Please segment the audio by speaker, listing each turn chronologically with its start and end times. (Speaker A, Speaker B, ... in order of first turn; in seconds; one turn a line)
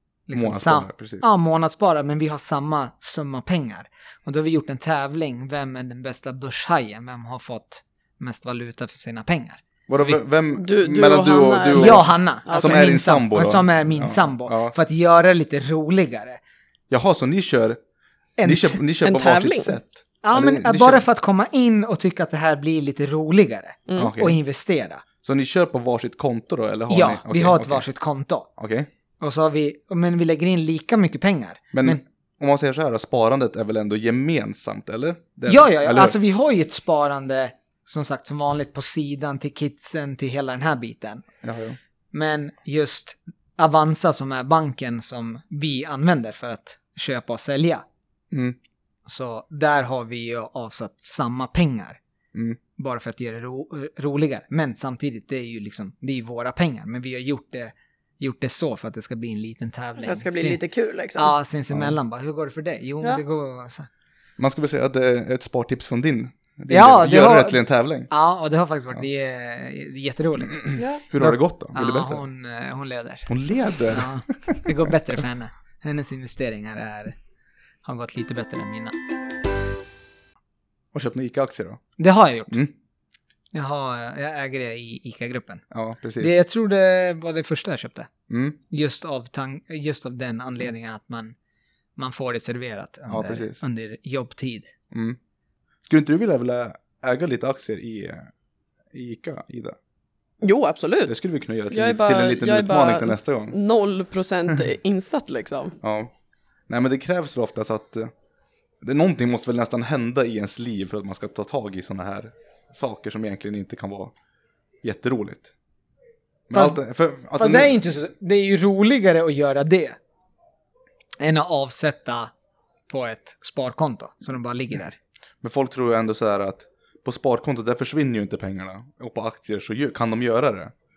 Speaker A: 0.3-10.2
Speaker B: 0.3-1.3
Speaker B: 9.9-14.8
Speaker C: 10.6-12.9
Speaker A: 11.7-16.4
Speaker B: 16.9-17.8
Speaker A: 18.4-18.8
Speaker B: 18.4-21.0
Speaker C: 19.0-19.7
Speaker A: 20.2-25.0
Speaker B: 24.0-24.4
Speaker B: 25.2-27.9
Speaker A: 26.9-28.5
Speaker B: 28.6-28.9
Speaker A: 29.2-32.0
Speaker B: 31.7-36.2
Speaker A: 35.5-41.2
Speaker B: 41.4-41.8
Speaker A: 42.1-47.9
Speaker B: 48.3-48.6
Speaker A: 49.1-52.0
Speaker A: 52.8-60.6
Speaker C: 60.0-61.3
Speaker A: 61.2-63.9
Speaker B: 64.4-68.1
Speaker A: 66.7-73.3
Speaker B: 70.7-72.2
Speaker B: 73.3-74.7
Speaker A: 73.9-77.2
Speaker A: 77.8-79.0
Speaker B: 80.9-81.8
Speaker A: 82.0-82.6
Speaker A: 83.5-85.6
Speaker B: 85.7-86.3
Speaker A: 86.2-88.1
Speaker B: 88.3-88.6
Speaker A: 88.7-91.3
Speaker A: 92.0-94.7
Speaker B: 93.1-93.6
Speaker B: 94.9-95.2
Speaker B: 95.9-98.3
Speaker B: 98.9-99.8
Speaker C: 100.4-101.1
Speaker B: 101.0-103.6
Speaker C: 101.7-105.8
Speaker B: 105.8-106.1
Speaker B: 106.7-108.1
Speaker B: 108.8-114.1
Speaker B: 114.8-115.5
Speaker B: 116.5-117.7
Speaker A: 116.5-116.8
Speaker A: 117.3-120.0
Speaker A: 121.2-122.3
Speaker A: 122.9-125.0
Speaker B: 125.4-130.7